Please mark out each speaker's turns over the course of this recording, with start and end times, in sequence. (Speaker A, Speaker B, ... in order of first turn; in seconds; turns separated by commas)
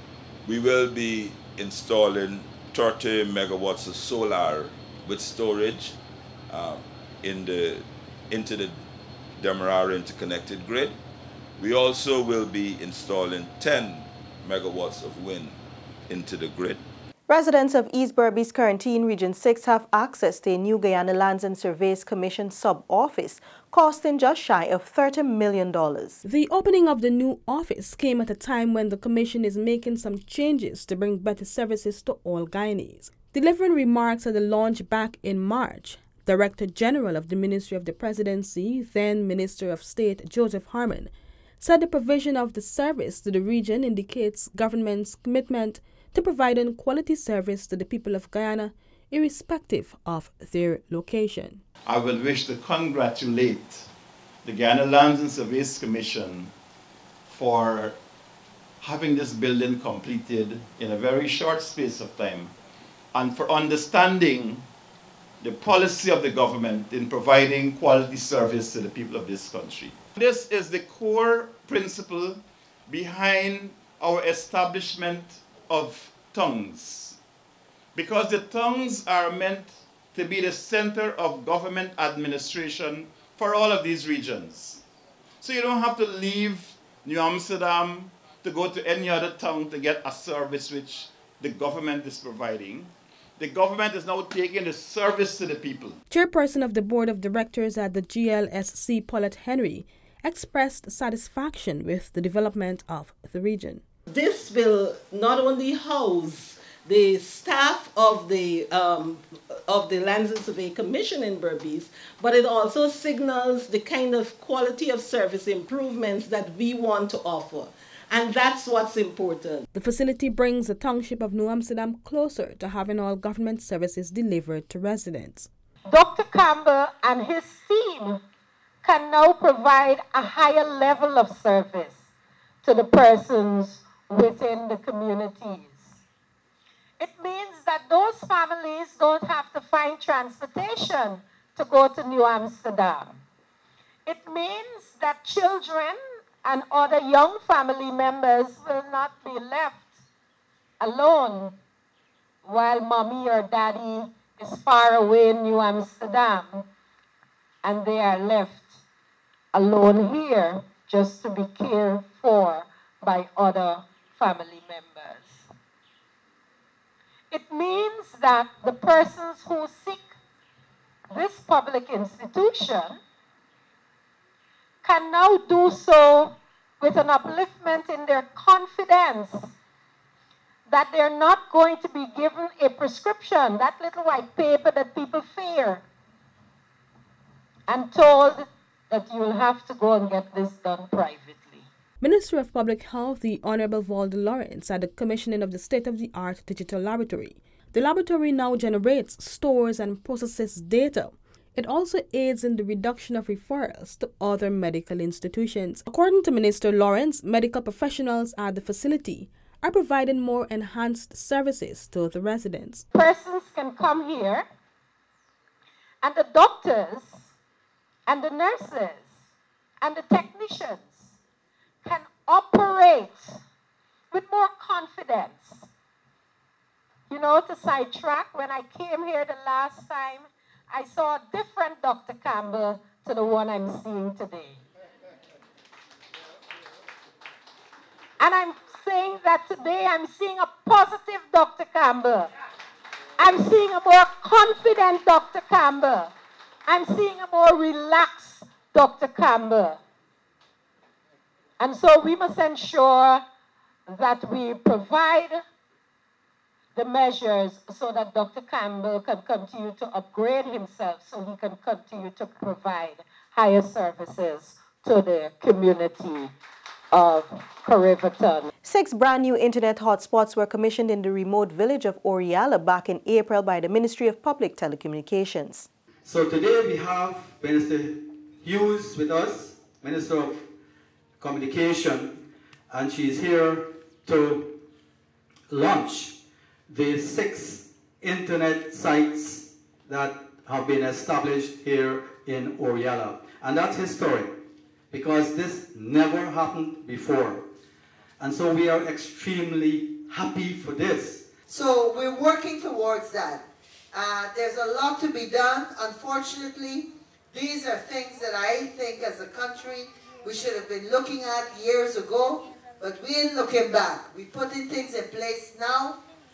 Speaker A: 0.5-6.0, Speaker A: 6.5-8.8, Speaker A: 9.4-11.0, Speaker A: 11.6-15.6, Speaker A: 16.1-16.8, Speaker B: 17.3-26.2, Speaker C: 26.2-51.6, Speaker D: 51.9-53.9, Speaker D: 54.5-56.5, Speaker D: 57.3-58.0, Speaker D: 58.8-62.5, Speaker D: 63.1-64.7, Speaker D: 65.4-77.2, Speaker D: 78.0-84.8, Speaker D: 85.4-96.0, Speaker C: 96.1-103.8, Speaker E: 104.1-119.6, Speaker C: 119.7-125.5, Speaker F: 125.9-128.2, Speaker F: 128.8-132.0, Speaker F: 132.6-135.9, Speaker F: 137.0-143.2, Speaker F: 144.1-149.8, Speaker F: 150.8-151.6, Speaker F: 152.4-156.7, Speaker F: 157.6-158.7, Speaker F: 159.5-165.4, Speaker F: 167.3-170.1, Speaker F: 171.1-173.0, Speaker F: 174.8-179.5, Speaker F: 180.7-185.8, Speaker F: 187.7-191.7, Speaker C: 192.0-212.9, Speaker F: 212.9-214.4, Speaker F: 216.0-217.2, Speaker F: 218.1-219.1, Speaker F: 219.8-221.0, Speaker F: 221.8-223.4, Speaker F: 224.1-225.7, Speaker F: 227.1-234.6, Speaker F: 238.2-242.3, Speaker F: 243.2-246.1, Speaker F: 246.7-249.8, Speaker F: 251.6-253.2, Speaker F: 253.9-255.4, Speaker F: 256.8-266.3, Speaker F: 266.9-268.5, Speaker B: 268.6-275.7, Speaker G: 276.1-280.4, Speaker G: 281.2-282.2, Speaker G: 282.7-284.5, Speaker G: 285.5-286.2, Speaker G: 286.7-294.3, Speaker G: 294.9-297.4, Speaker G: 298.2-301.2, Speaker H: 301.5-316.0